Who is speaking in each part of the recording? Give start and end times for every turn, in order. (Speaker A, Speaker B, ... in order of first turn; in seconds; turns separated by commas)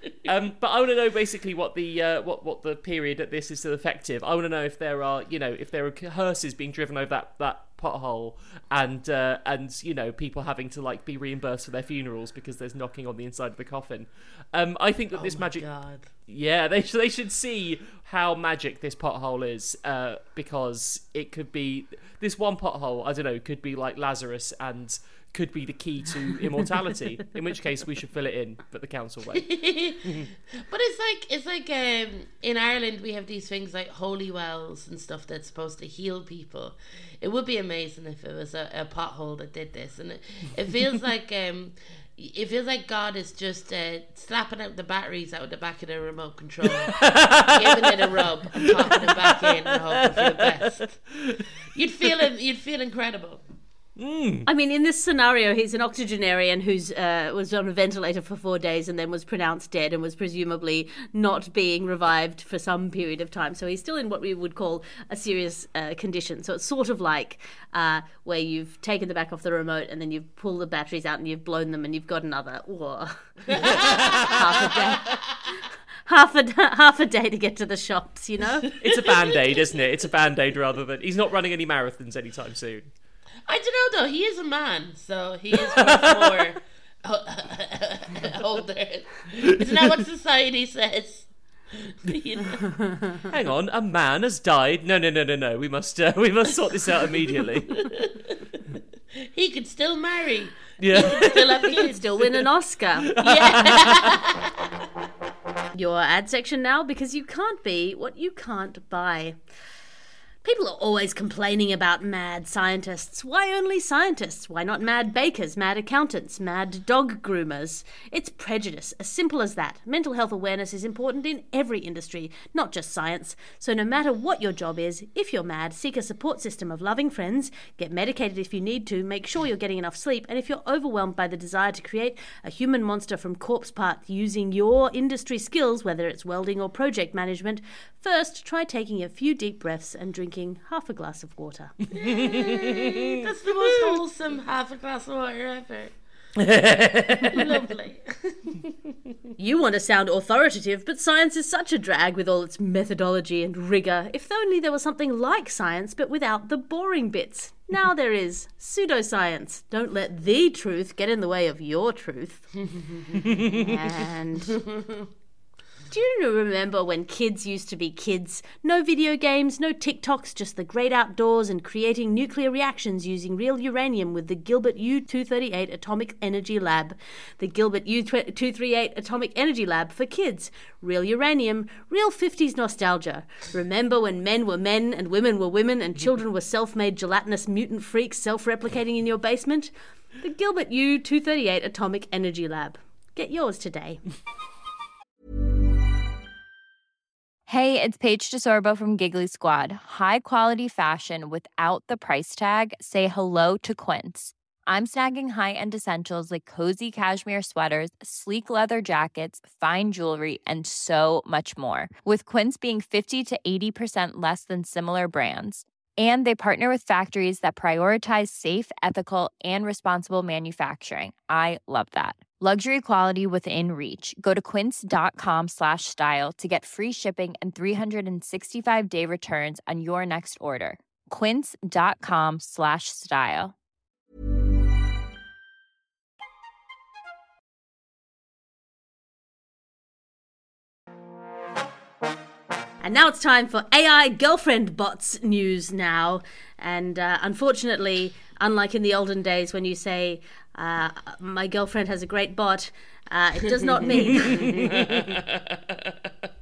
Speaker A: 0.2-15.7, Speaker B: 15.1-16.1, Speaker A: 16.3-29.4, Speaker B: 29.3-50.9, Speaker A: 46.7-51.5, Speaker B: 51.7-53.4, Speaker A: 54.0-54.5, Speaker C: 54.5-73.3, Speaker B: 73.5-75.2, Speaker A: 73.6-74.8, Speaker C: 74.3-75.0, Speaker C: 76.1-78.7, Speaker A: 78.8-82.9, Speaker B: 78.9-79.6, Speaker B: 83.5-93.2, Speaker A: 85.5-86.4, Speaker A: 93.3-97.7, Speaker B: 97.7-98.2, Speaker B: 99.3-102.2, Speaker A: 100.8-101.8, Speaker C: 101.7-103.1, Speaker A: 103.1-104.1, Speaker B: 103.2-104.5, Speaker C: 105.7-109.4, Speaker C: 110.4-141.7, Speaker A: 142.0-142.9, Speaker B: 142.0-145.9, Speaker A: 143.6-144.0, Speaker A: 146.4-147.5, Speaker B: 147.2-148.4, Speaker C: 149.4-162.5, Speaker B: 162.8-163.2, Speaker C: 163.3-164.6, Speaker C: 165.9-194.0, Speaker D: 197.5-233.5, Speaker C: 242.8-254.7, Speaker B: 253.8-255.2, Speaker A: 254.2-255.0